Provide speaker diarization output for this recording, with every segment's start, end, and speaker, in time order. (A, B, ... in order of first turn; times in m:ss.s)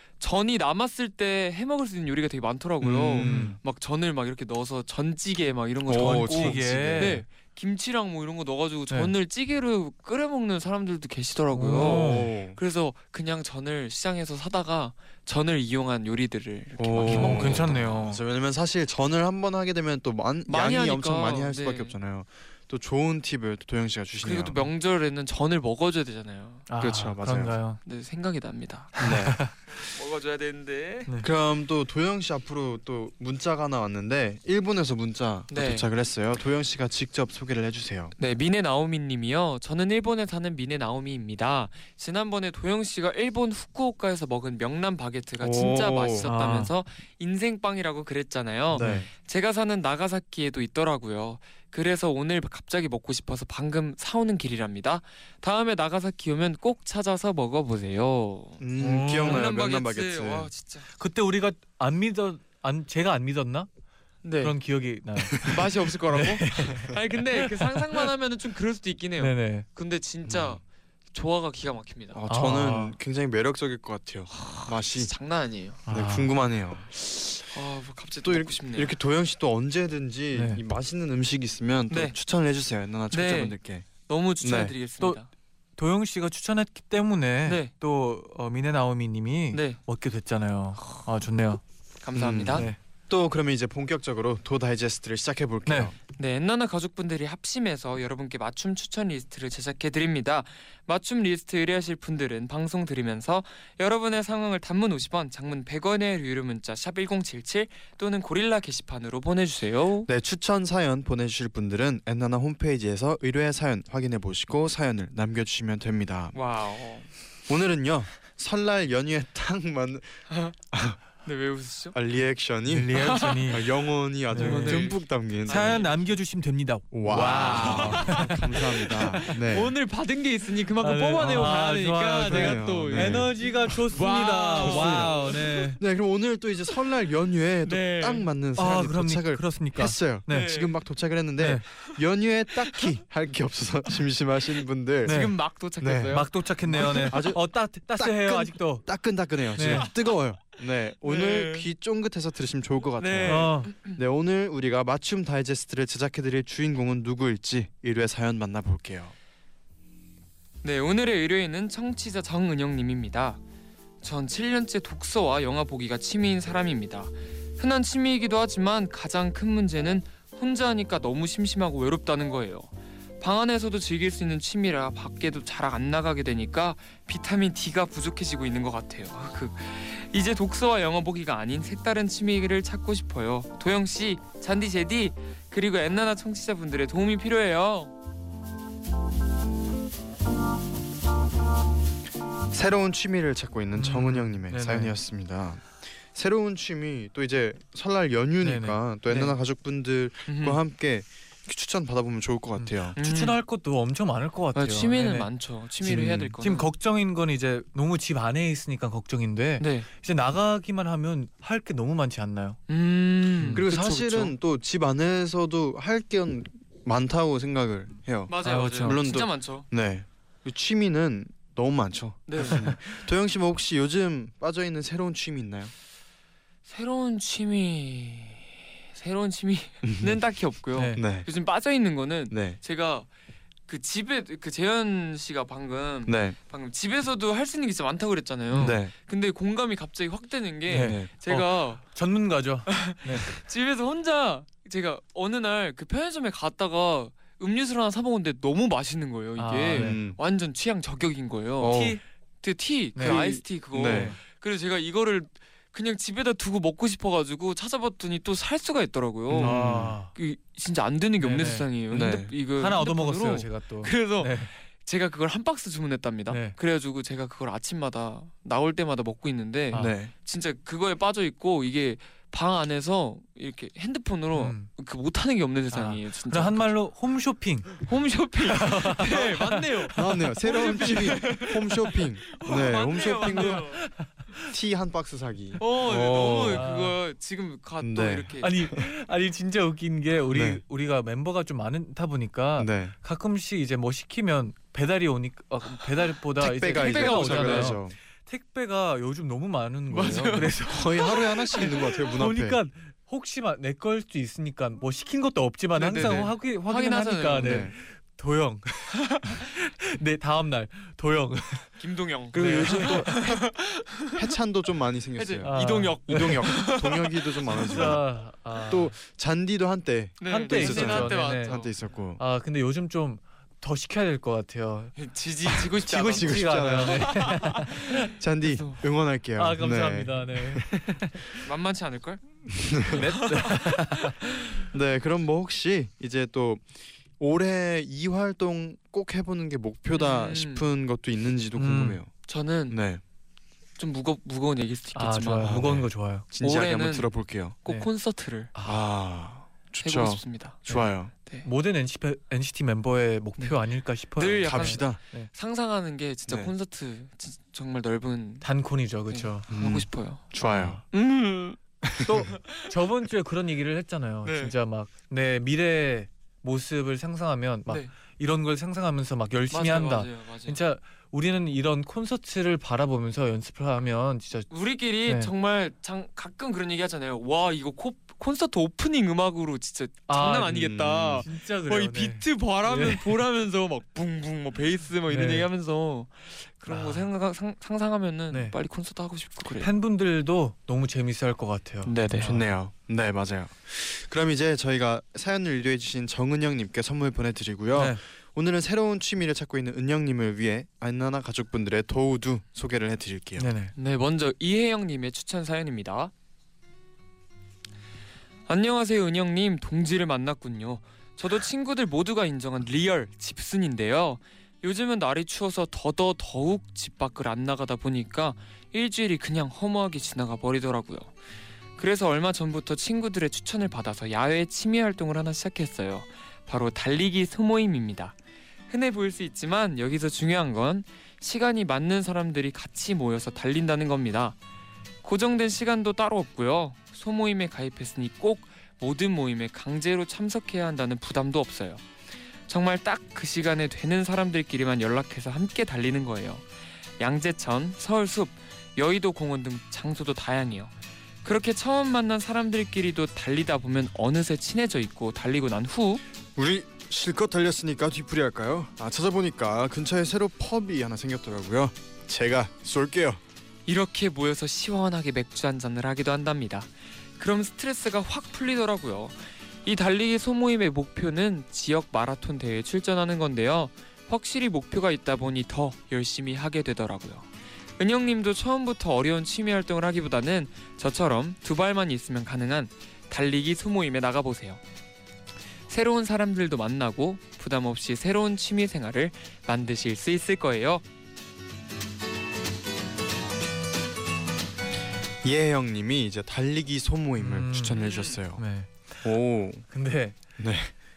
0:00.2-0:18.1 A
0:02.8-0:03.6 B
0:03.2-0:03.5 C
0:05.8-0:07.2 B
0:05.9-0:07.2 C
0:11.5-0:12.3 C
0:11.7-0:12.6 B
0:16.8-0:24.7 B
0:17.0-0:18.2 C
0:20.5-0:21.9 A
0:24.2-0:26.7 A
0:26.7-0:27.8 C
0:26.8-0:27.6 B
0:27.8-0:29.0 A
0:29.0-0:29.5 C
0:29.0-0:29.5 B
0:29.7-0:31.1 A
0:31.2-0:38.1 B
0:35.5-0:35.9 A
0:38.2-0:58.6 A
0:45.4-0:46.3 B
0:46.2-0:46.7 C
0:48.7-0:49.1 B
0:48.7-0:49.0 C
0:58.6-1:00.5 B
0:58.8-0:59.5 C
0:59.2-1:00.9 A
1:01.0-1:03.7 C
1:04.2-1:04.6 A
1:04.4-1:08.1 C
1:05.4-1:10.6 A
1:09.2-1:09.6 C
1:10.2-1:10.6 B
1:11.1-1:12.2 A
1:12.1-1:15.1 B
1:12.3-1:13.0 C
1:14.3-1:15.8 A
1:15.9-1:16.3 C
1:15.9-1:16.9 B
1:16.9-1:19.0 A
1:18.2-1:23.9 B
1:20.3-1:20.6 C
1:21.9-1:22.1 A
1:23.1-1:25.3 A
1:24.4-1:24.7 B
1:25.8-1:31.6 C
1:27.4-1:27.7 A
1:29.5-1:29.8 A
1:32.0-1:32.7 A
1:32.2-1:35.9 B
1:35.7-1:35.9 C
1:36.1-1:50.1 A
1:50.0-1:56.4 B
1:56.3-1:57.1 A
1:57.5-2:00.2 B
2:00.3-2:00.6 A
2:00.7-2:01.0 B
2:01.2-2:02.0 A
2:01.9-2:05.8 B
2:02.7-2:03.7 C
2:02.9-2:03.6 A
2:04.3-2:09.3 C
2:04.3-2:05.9 A
2:06.9-2:09.7 B
2:07.1-2:15.8 A
2:10.8-2:15.8 C
2:12.2-2:13.3 B
2:14.5-2:15.1 B
2:15.8-2:26.2 B
2:17.6-2:18.3 A
2:18.6-2:20.6 C
2:20.3-2:20.7 A
2:21.4-2:21.6 C
2:25.0-2:25.3 C
2:25.0-2:27.3 A
2:26.1-2:29.0 C
2:26.8-2:39.1 B
2:29.5-2:29.9 C
2:29.6-2:29.9 A
2:31.0-2:31.6 A
2:33.0-2:34.0 A
2:33.2-2:33.7 C
2:40.6-2:43.4 A
2:44.0-3:07.9 A
3:12.5-3:23.0 B
3:13.8-3:14.9 C
3:18.4-3:19.3 C
3:20.3-3:20.6 A
3:22.6-3:32.6 C
3:23.0-3:23.4 A
3:24.5-3:26.7 A
3:29.6-3:29.9 A
3:32.7-3:34.4 A
3:33.4-3:33.6 C
3:33.5-3:45.7 B
3:38.3-3:39.7 A
3:38.4-3:39.0 C
3:42.3-3:42.7 A
3:46.6-3:53.1 A
3:49.8-3:50.2 B
3:50.8-3:51.0 C
3:50.9-3:51.3 B
3:52.3-3:52.6 B
3:53.7-4:01.8 A
3:56.0-3:56.4 B
3:58.5-3:58.8 C
3:58.5-3:58.9 B
4:00.7-4:03.4 C
4:00.7-4:01.1 B
4:02.7-4:11.8 A
4:09.4-4:10.0 C
4:09.7-4:10.2 B
4:11.6-4:12.0 B
4:11.7-4:12.0 C
4:12.4-4:36.7 A
4:12.9-4:14.2 C
4:13.0-4:14.1 B
4:19.3-4:20.0 B
4:19.3-4:20.1 C
4:21.2-4:22.0 C
4:21.9-4:22.3 B
4:22.6-4:24.5 C
4:26.3-4:26.6 C
4:29.7-4:30.1 B
4:34.3-4:34.7 C
4:35.7-4:37.9 C
4:37.8-4:43.9 A
4:38.5-4:40.9 C
4:39.9-4:43.7 B
4:42.9-4:44.4 C
4:44.5-4:46.6 B
4:45.6-4:48.7 A
4:46.4-4:47.0 C
4:47.8-4:48.8 B
4:48.4-5:11.8 C
4:50.3-4:50.6 B
4:52.6-4:52.9 B
4:56.4-4:57.9 B
4:56.7-4:57.8 A
4:59.9-5:01.8 A
5:00.1-5:02.6 B
5:05.8-5:07.7 A
5:07.4-5:07.7 B
5:11.8-5:14.2 A
5:12.3-5:13.2 C
5:12.3-5:18.1 B
5:15.2-5:17.9 A
5:15.4-5:16.6 C
5:17.5-5:18.9 C
5:18.7-5:22.2 B
5:20.2-5:21.7 A
5:20.3-5:21.6 C
5:22.2-5:25.0 C
5:25.0-5:28.8 A
5:25.8-5:27.4 B
5:26.1-5:28.1 C
5:28.1-5:31.0 B
5:29.4-5:31.2 C
5:31.4-5:32.2 A
5:32.5-5:33.0 B
5:32.9-5:34.3 C
5:33.0-5:34.3 A
5:34.7-5:42.1 B
5:39.9-5:40.7 A
5:41.6-5:42.0 C
5:42.2-5:42.8 A
5:42.7-5:43.0 B
5:43.8-5:45.6 A
5:44.9-5:46.2 C
5:45.4-5:47.6 B
5:46.4-5:47.1 A
5:47.6-5:48.5 A
5:48.5-5:48.8 C
5:48.6-5:51.1 B
5:49.8-5:51.5 A
5:51.4-5:55.3 C
5:54.2-5:58.4 A
5:54.4-5:55.0 B
5:56.3-5:56.5 B
5:58.4-5:59.5 C
5:59.1-6:00.4 A
5:59.5-6:00.8 B
6:00.4-6:00.8 C
6:00.9-6:01.6 A
6:01.8-6:02.3 B
6:02.0-6:14.5 C
6:02.4-6:02.7 A
6:04.2-6:04.5 A
6:09.5-6:10.6 A
6:14.5-6:29.7 A
6:15.0-6:15.3 C
6:20.1-6:23.2 C
6:20.5-6:21.3 B
6:25.1-6:25.5 C
6:26.6-6:27.1 C
6:28.3-6:28.6 C
6:29.5-6:32.5 C
6:31.8-6:32.3 A
6:32.2-6:43.5 B
6:37.7-6:38.0 C
6:43.4-6:43.7 C
6:43.8-6:46.1 A
6:48.5-7:01.1 A
7:01.8-7:08.2 A
7:08.7-7:14.4 A
7:15.0-7:21.8 A
7:22.5-7:26.4 A
7:27.0-7:36.0 A
7:36.4-7:43.2 B
7:43.6-8:04.6 A
8:05.7-8:10.8 A
8:15.2-8:18.4 B
8:17.2-8:18.9 C
8:17.8-8:18.2 A
8:19.0-8:19.6 B
8:19.7-8:20.2 C
8:20.4-8:20.7 B